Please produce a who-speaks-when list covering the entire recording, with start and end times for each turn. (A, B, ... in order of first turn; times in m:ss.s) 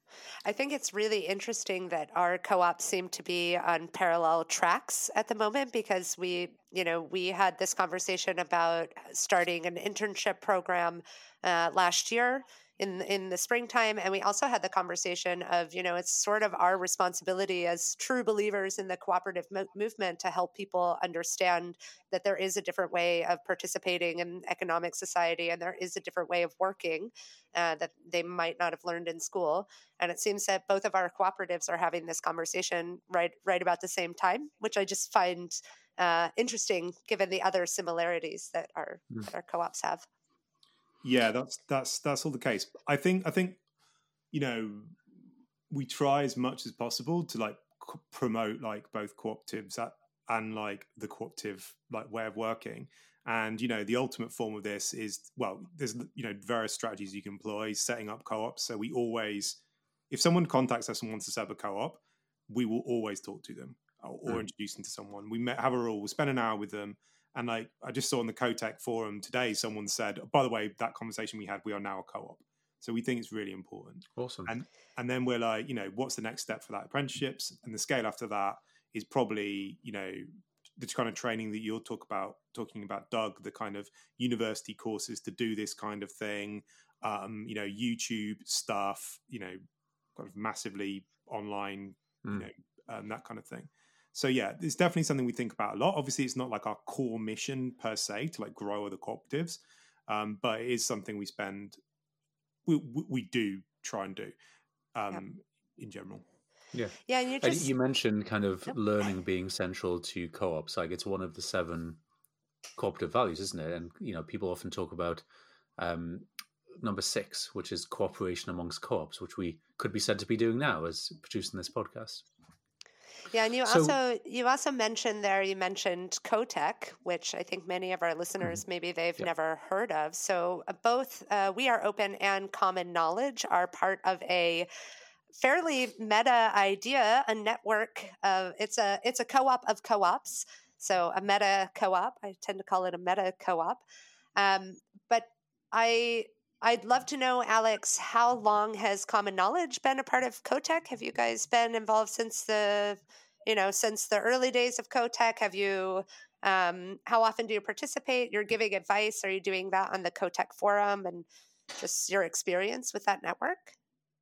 0:00.4-0:40.1 A
0:41.0-0:43.6 B
0:44.3-0:45.0 B
0:45.7-0:59.6 B
1:00.1-1:29.6 B
1:14.2-1:14.6 C
1:30.2-1:41.8 B
1:42.7-1:44.3 B
1:45.0-1:46.2 B
1:46.7-1:52.0 C
1:47.1-1:47.7 A
1:52.8-1:55.2 C
1:55.8-2:02.3 C
2:03.3-2:14.7 A
2:03.7-2:04.0 C
2:15.4-2:23.8 A
2:24.4-2:41.3 A
2:41.8-2:43.8 A